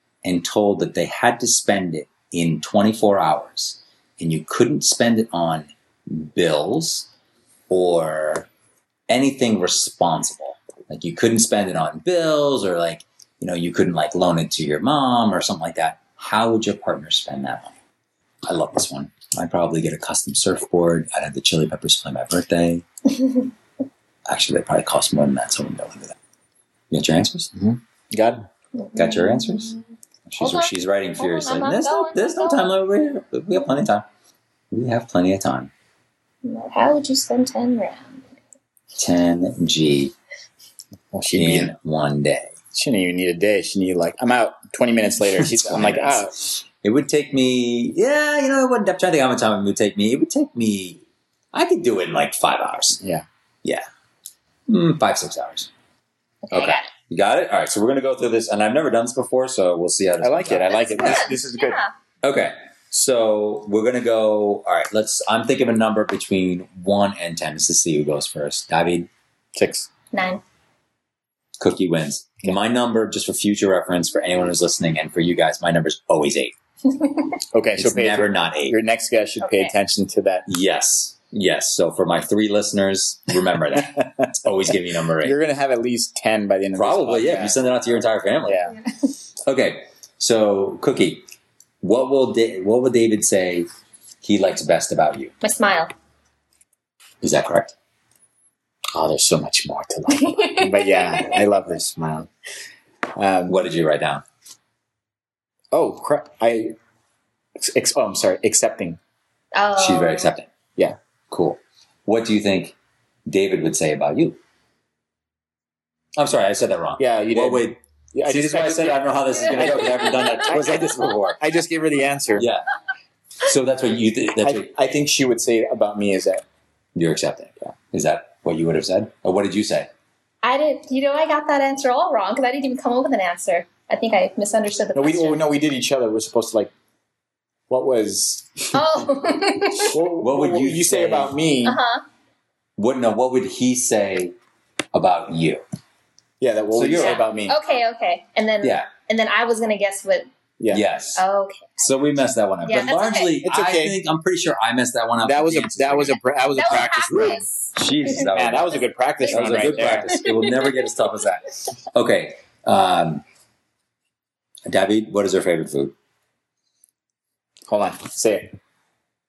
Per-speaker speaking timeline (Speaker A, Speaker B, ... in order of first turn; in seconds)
Speaker A: 0.2-7.1, 7.7-8.5, 9.1-17.7, 18.4-22.9, 24.3-26.1, 26.9-27.5, 28.9-29.7, 30.3-34.0, 34.7-35.7, 39.0-40.1, 41.3-42.5, 45.4-51.0, 51.5-53.0, 54.7-55.7, 56.5-61.3, 62.2-69.1, 71.6-76.5, 77.8-78.8, 80.5-85.3, 86.8-88.7, 89.4-91.2, 91.8-93.7, 94.2-95.3, 97.2-97.7, 103.5-104.2, 109.8-110.5, 111.3-112.7, 113.3-114.4, 116.2-121.4, 122.3-122.6, 123.4-124.7, 127.0-129.9, 140.2-141.3, 142.8-144.3, 144.9-145.6, 146.7-147.2, 148.6-148.9, 150.7-151.2, 151.8-163.2, 164.7-165.9
Speaker B: 27.5-28.5, 41.1-41.7, 42.7-46.4, 60.2-61.8, 69.5-69.9, 77.5-80.5, 83.8-87.6, 88.4-88.8, 98.9-102.3, 103.1-103.6, 105.7-106.7, 107.6-109.0, 117.0-122.5, 124.4-126.4, 134.9-136.7, 137.7-138.8, 139.9-141.8, 146.4-147.6, 150.6-150.8, 153.4-154.0, 155.2-157.4, 158.3-160.1, 167.7-168.5
Speaker C: 28.8-29.8, 30.4-32.7, 36.4-38.2, 56.5-56.9, 60.7-61.9, 70.1-70.4, 79.4-79.7, 95.4-95.9, 100.1-101.4, 109.5-110.3, 119.6-120.6, 130.4-135.4, 138.7-140.0, 141.6-142.0, 147.0-150.3, 151.2-151.9, 152.6-153.3, 156.5-158.3, 159.2-160.8